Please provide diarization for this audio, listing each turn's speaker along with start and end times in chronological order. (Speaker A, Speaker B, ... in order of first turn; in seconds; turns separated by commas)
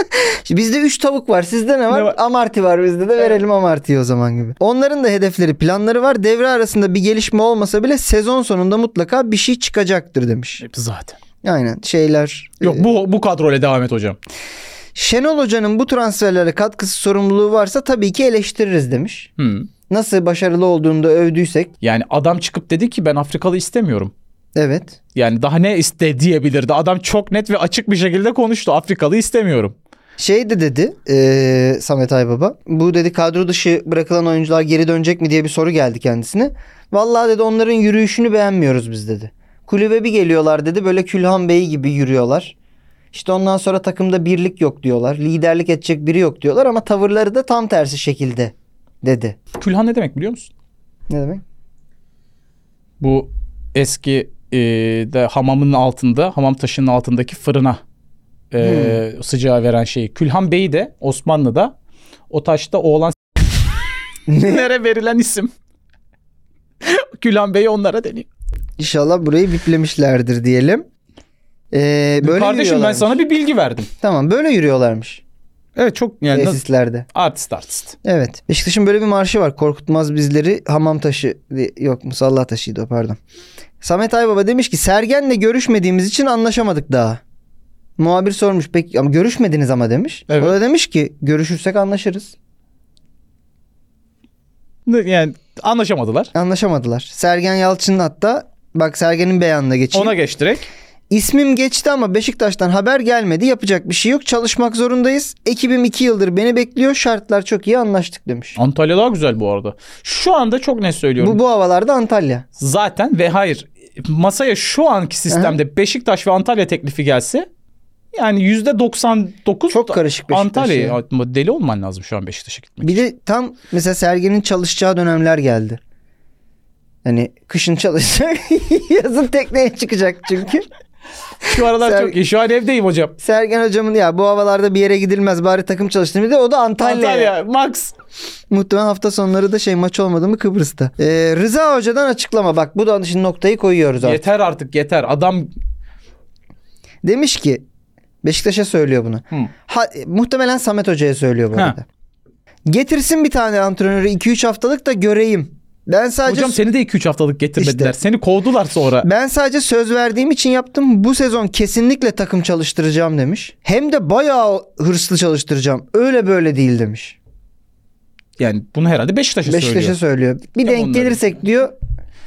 Speaker A: 0.1-10.6, Speaker B: 1.9-2.2, Speaker B: 10.6-11.2, Speaker A: 11.4-12.9, Speaker B: 12.6-14.2, Speaker A: 14.9-19.3, Speaker B: 19.4-19.7, Speaker A: 19.9-21.7, Speaker B: 21.8-24.1, Speaker A: 24.5-25.0, Speaker B: 25.1-29.7, Speaker A: 30.2-42.5, Speaker A: 43.1-49.4, Speaker B: 49.6-50.5, Speaker A: 51.1-51.4, Speaker B: 53.0-57.8, Speaker B: 58.5-61.7, Speaker A: 58.6-59.0, Speaker B: 62.3-63.5, Speaker A: 64.3-64.7, Speaker B: 64.4-65.5, Speaker B: 66.8-68.3, Speaker A: 68.8-70.8, Speaker A: 71.7-73.2, Speaker B: 72.2-73.9, Speaker A: 74.0-75.2, Speaker B: 75.8-76.6, Speaker A: 76.3-77.0, Speaker B: 77.1-78.0, Speaker A: 78.0-83.2, Speaker A: 83.8-87.2, Speaker A: 88.0-92.3, Speaker B: 90.3-90.5, Speaker B: 94.8-96.3, Speaker A: 96.3-100.2, Speaker B: 99.9-100.7, Speaker A: 101.1-108.6, Speaker B: 108.6-111.4, Speaker A: 111.2-112.5, Speaker B: 112.6-117.5, Speaker A: 115.3-115.6, Speaker B: 118.1-123.0, Speaker A: 119.7-121.0, Speaker A: 122.8-125.8, Speaker A: 127.0-130.7, Speaker B: 131.4-133.1, Speaker A: 131.5-132.2, Speaker A: 133.2-137.3, Speaker B: 136.8-137.9, Speaker A: 138.5-144.2, Speaker B: 144.0-145.5, Speaker A: 147.0-147.6, Speaker A: 148.2-151.8, Speaker A: 152.7-156.6, Speaker B: 156.2-159.1, Speaker A: 157.6-157.9, Speaker A: 159.0-167.2, Speaker B: 168.4-170.0, Speaker A: 169.4-171.7, Speaker B: 170.6-171.4